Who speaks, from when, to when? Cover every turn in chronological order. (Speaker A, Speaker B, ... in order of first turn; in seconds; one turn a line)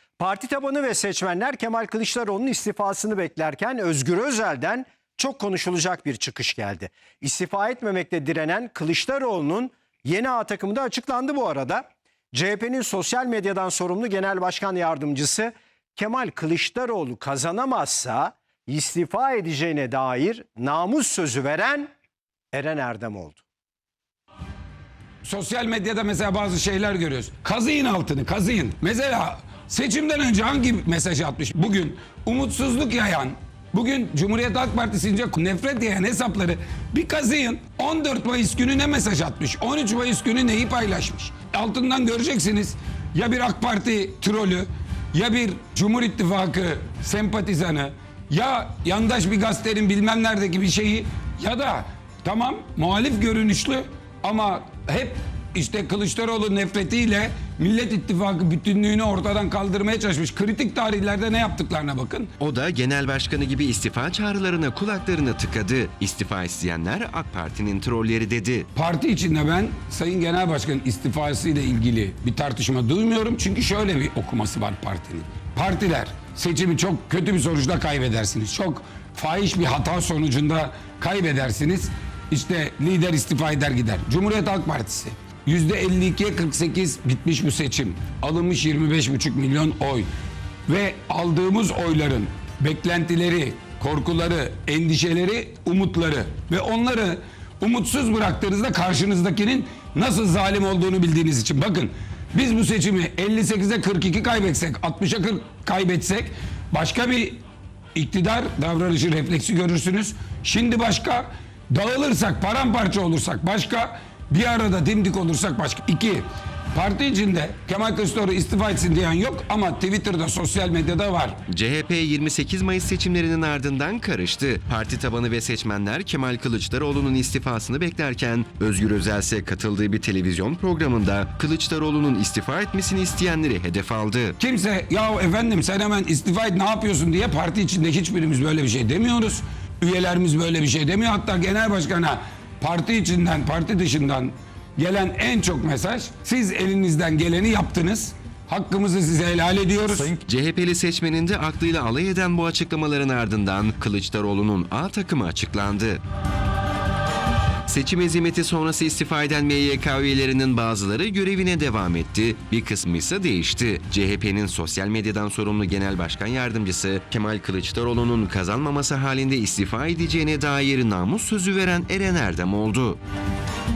Speaker A: 0.2-21.9
Speaker A: 22.5-23.4
Speaker B: 25.2-62.3
Speaker C: 62.4-68.7
Speaker B: 68.7-90.1
Speaker B: 90.7-107.4
Speaker B: 107.9-121.4
Speaker C: 121.5-134.4
Speaker B: 134.4-150.2
Speaker C: 150.2-156.0
Speaker C: 157.7-173.0